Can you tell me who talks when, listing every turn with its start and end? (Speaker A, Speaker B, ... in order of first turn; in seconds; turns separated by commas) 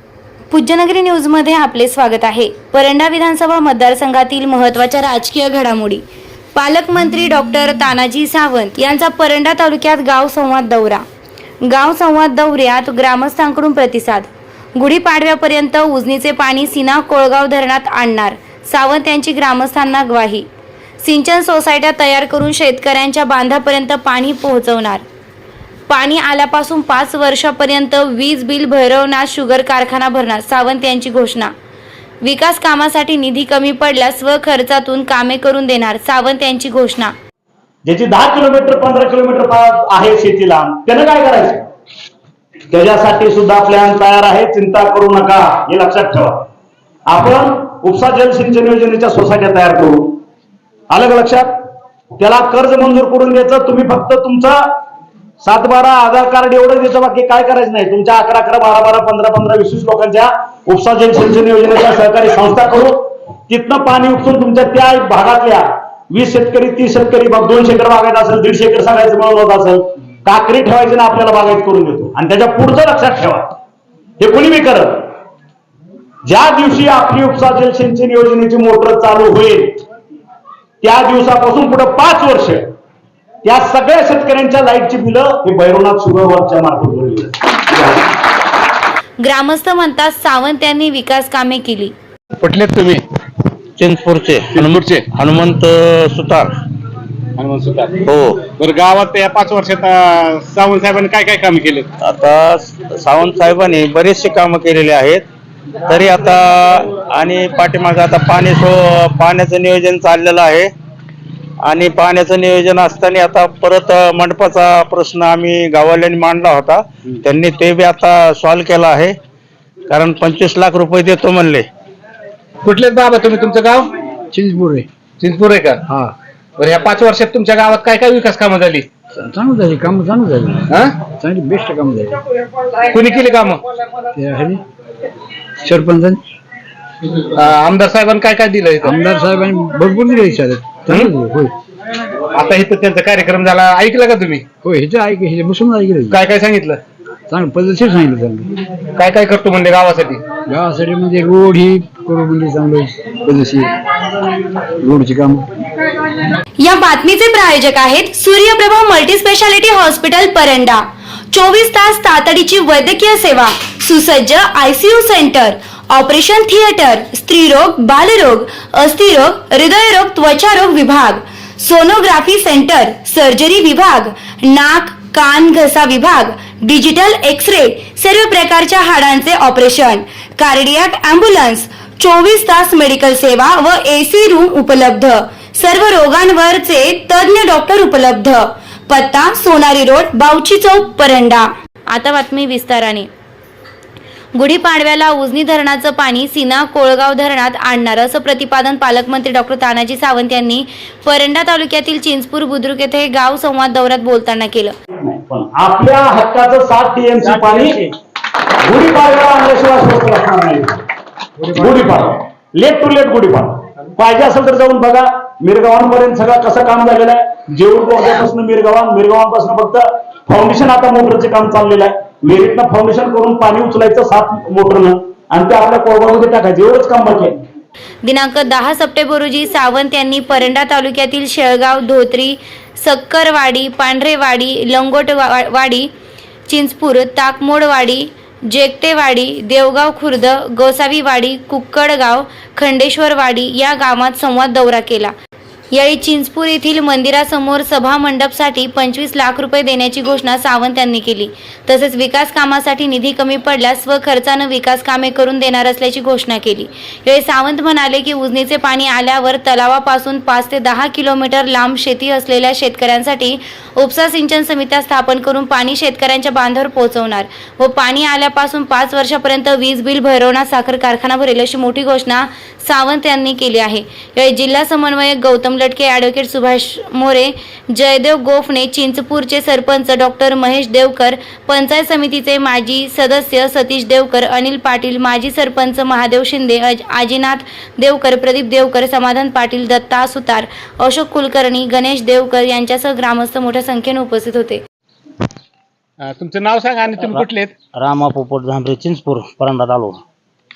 Speaker A: 0.5-6.0, Speaker A: 6.5-11.1, Speaker A: 11.6-20.5, Speaker A: 21.0-25.0, Speaker A: 25.9-31.5, Speaker A: 32.2-37.1, Speaker B: 37.9-41.7, Speaker B: 42.7-46.5, Speaker B: 47.1-50.2, Speaker B: 50.9-51.5, Speaker B: 52.2-54.7, Speaker B: 55.4-73.5, Speaker B: 74.2-75.1, Speaker B: 76.2-79.8, Speaker B: 80.8-82.7, Speaker B: 83.4-88.1, Speaker A: 89.2-91.9, Speaker C: 92.4-93.0, Speaker D: 93.8-96.5, Speaker C: 94.5-95.1, Speaker C: 97.4-101.9, Speaker D: 98.1-98.4, Speaker D: 102.0-105.2, Speaker D: 105.9-110.7, Speaker D: 111.6-119.2, Speaker D: 119.9-121.7, Speaker C: 122.6-123.9, Speaker E: 124.3-124.9, Speaker C: 125.2-125.8, Speaker E: 125.9-126.2, Speaker C: 126.6-128.9, Speaker E: 129.2-132.2, Speaker C: 130.7-131.0, Speaker C: 132.9-133.6, Speaker E: 134.1-134.6, Speaker E: 135.6-136.2, Speaker C: 137.3-138.9, Speaker E: 138.8-141.5, Speaker C: 140.9-141.1, Speaker C: 142.3-144.5, Speaker E: 144.6-146.2, Speaker C: 146.1-146.8, Speaker E: 147.3-148.7, Speaker C: 149.0-150.2, Speaker E: 150.5-155.5, Speaker A: 156.6-193.1, Speaker A: 194.3-204.7, Speaker B: 204.9-207.9, Speaker B: 208.6-210.8, Speaker E: 211.4-211.7, Speaker B: 211.5-227.4, Speaker A: 228.0-235.9, Speaker A: 236.5-245.1, Speaker A: 245.7-294.6, Speaker C: 296.0-297.5, Speaker F: 297.1-300.0